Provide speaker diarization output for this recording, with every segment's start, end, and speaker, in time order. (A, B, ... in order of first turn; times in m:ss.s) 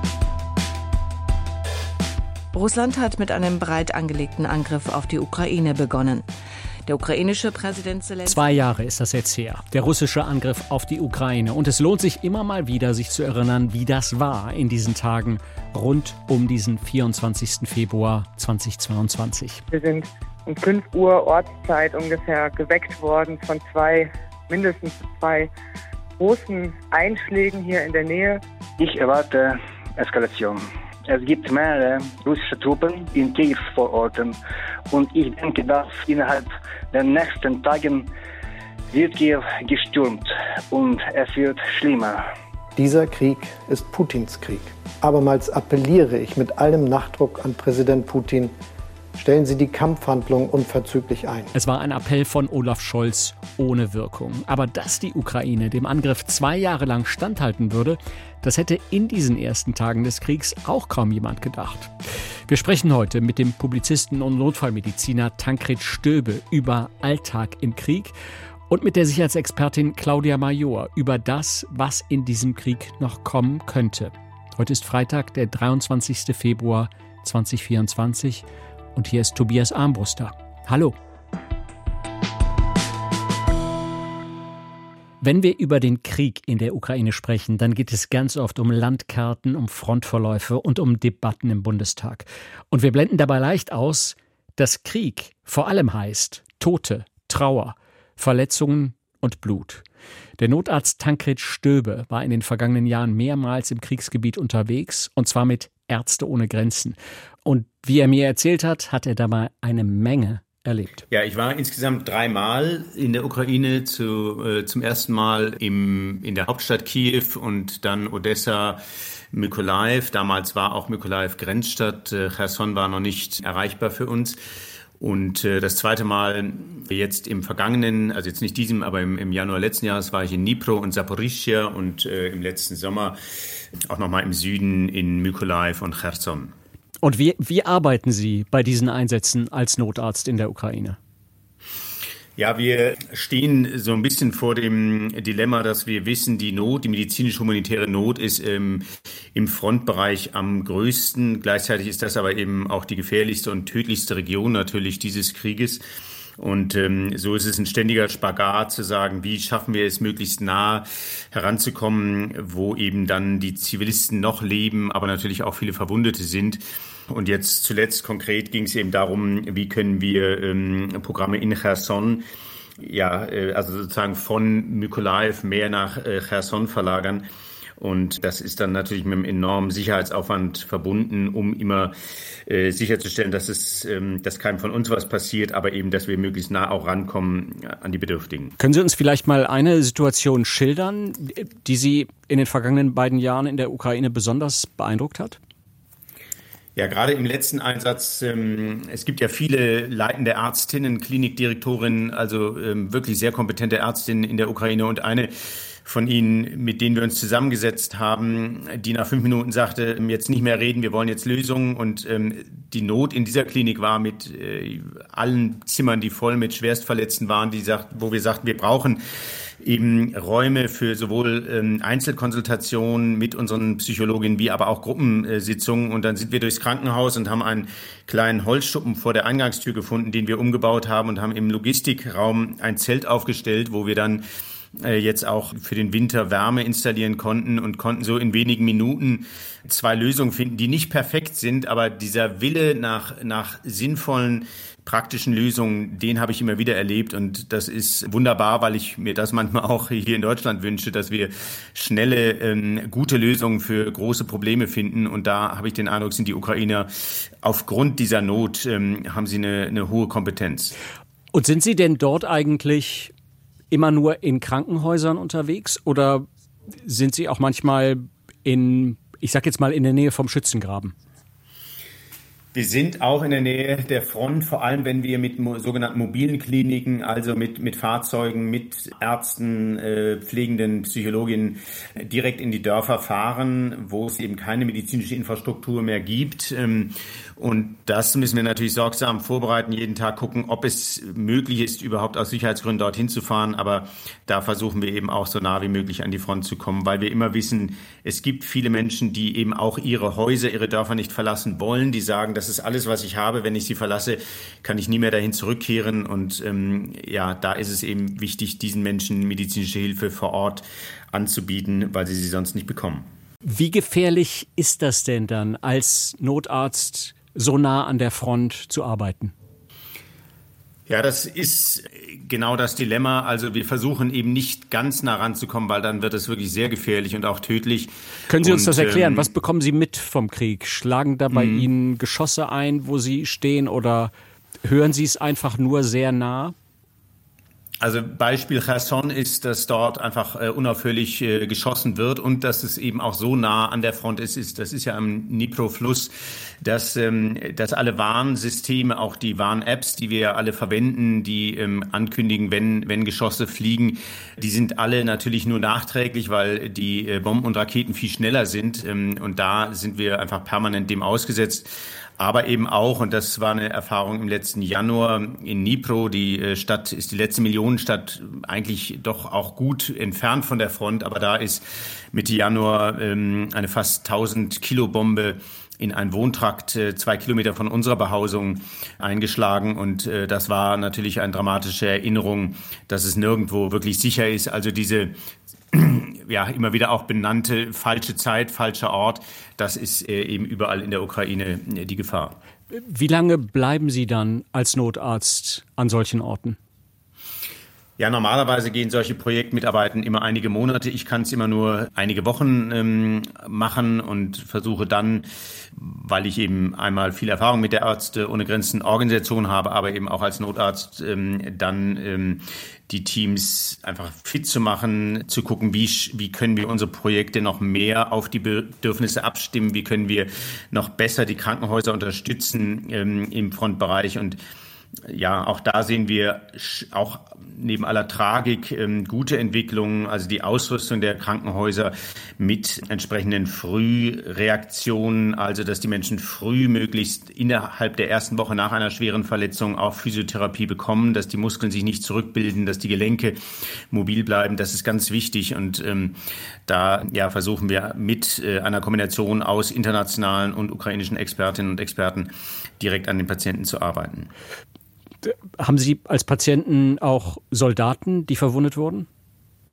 0:02.5-0:06.2 A
0:06.9-0:08.4 A
0:08.2-0:19.6 B
0:19.7-0:25.5 C
0:26.2-0:28.4 C
0:28.8-0:34.4 D
0:34.9-0:38.1 D
0:38.9-0:42.2 D
0:42.8-0:48.5 E
0:49.2-0:51.5 E
0:51.5-1:01.9 B
1:02.5-1:08.1 B
1:08.7-1:21.0 B
1:25.2-1:39.8 B
1:40.4-1:51.0 B
1:51.1-1:58.8 F
1:59.3-2:04.4 F
2:05.0-2:13.2 F
2:13.8-2:16.5 F
2:17.0-2:21.0 B
2:22.4-2:35.8 F
2:36.4-2:52.2 F
2:52.8-2:57.2 F
2:57.8-3:08.5 F
3:08.6-3:15.4 B
3:16.8-3:25.3 F
3:25.8-3:54.2 F
3:54.8-4:20.7 F
4:21.3-4:23.1 B
4:23.7-4:26.3 B
4:26.8-4:30.9 B
4:32.5-5:13.1 F
5:13.4-5:19.3 B
5:20.9-5:29.3 F
5:28.3-5:34.1 B
5:31.3-5:31.7 F
5:34.6-5:36.5 B
5:37.8-6:25.1 F
6:25.7-6:32.4 F
6:32.7-6:36.6 B
6:38.0-7:04.4 F
7:05.0-7:34.3 F
7:35.2-7:39.1 B